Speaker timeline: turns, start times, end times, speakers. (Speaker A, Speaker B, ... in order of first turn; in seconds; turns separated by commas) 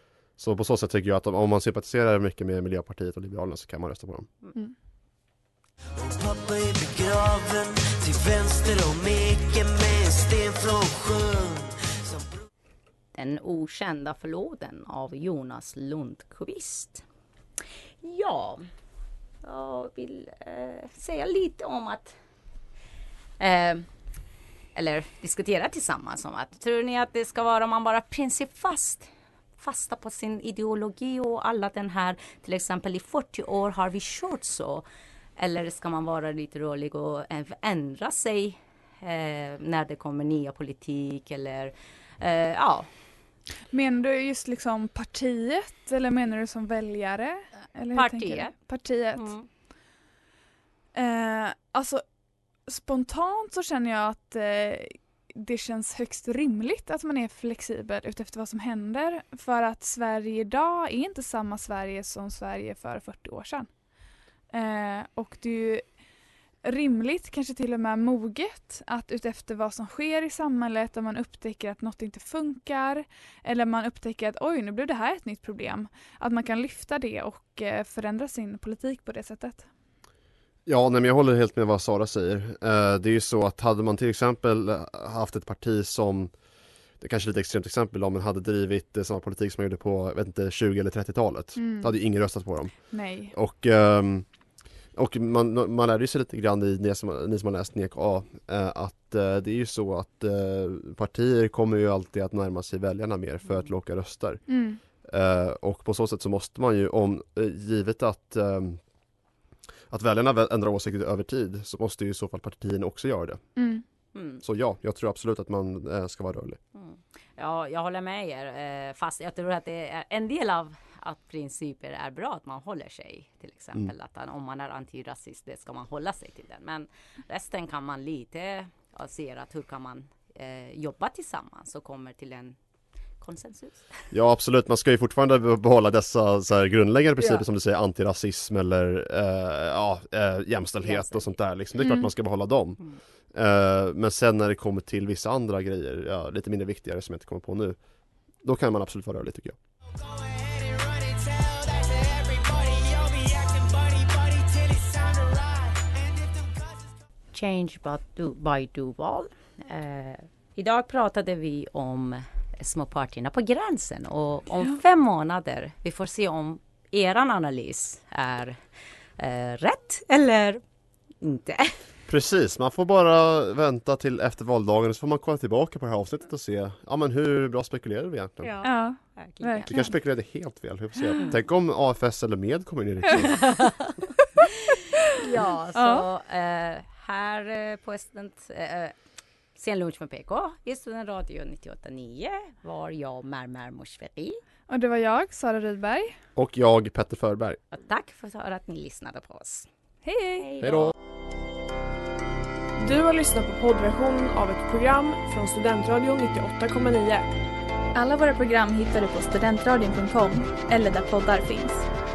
Speaker A: 0.3-4.3, Speaker B: 6.0-12.3, Speaker C: 13.2-17.0, Speaker C: 18.0-18.7, Speaker C: 19.4-22.2, Speaker C: 23.4-23.9, Speaker C: 24.8-34.9, Speaker C: 35.4-42.9, Speaker D: 43.7-49.4, Speaker C: 47.9-48.5, Speaker C: 49.2-49.5, Speaker D: 51.0-52.0, Speaker D: 52.7-63.7, Speaker D: 64.5-66.0, Speaker D: 66.6-79.7, Speaker A: 80.7-86.3, Speaker A: 87.0-104.5, Speaker D: 91.6-92.0, Speaker D: 92.9-93.3, Speaker D: 104.5-104.8, Speaker A: 105.0-108.8, Speaker A: 109.9-113.4, Speaker D: 113.6-113.8, Speaker C: 114.1-114.4, Speaker A: 114.4-116.6, Speaker C: 116.8-132.6, Speaker C: 133.2-134.1, Speaker A: 134.1-147.8, Speaker C: 140.8-141.4, Speaker D: 141.8-142.1, Speaker A: 148.4-149.6, Speaker C: 157.3-168.6, Speaker C: 169.2-170.6, Speaker C: 171.2-171.8, Speaker A: 172.1-178.6, Speaker C: 178.4-179.7, Speaker D: 178.6-179.9, Speaker A: 179.7-183.4, Speaker C: 183.4-183.9, Speaker C: 185.2-188.9, Speaker D: 185.8-186.1, Speaker C: 189.6-194.4, Speaker D: 194.7-196.2, Speaker A: 196.4-197.6, Speaker C: 197.7-199.7, Speaker D: 200.1-200.5, Speaker C: 200.3-200.9, Speaker A: 200.6-200.9, Speaker E: 202.8-207.3, Speaker F: 207.9-211.8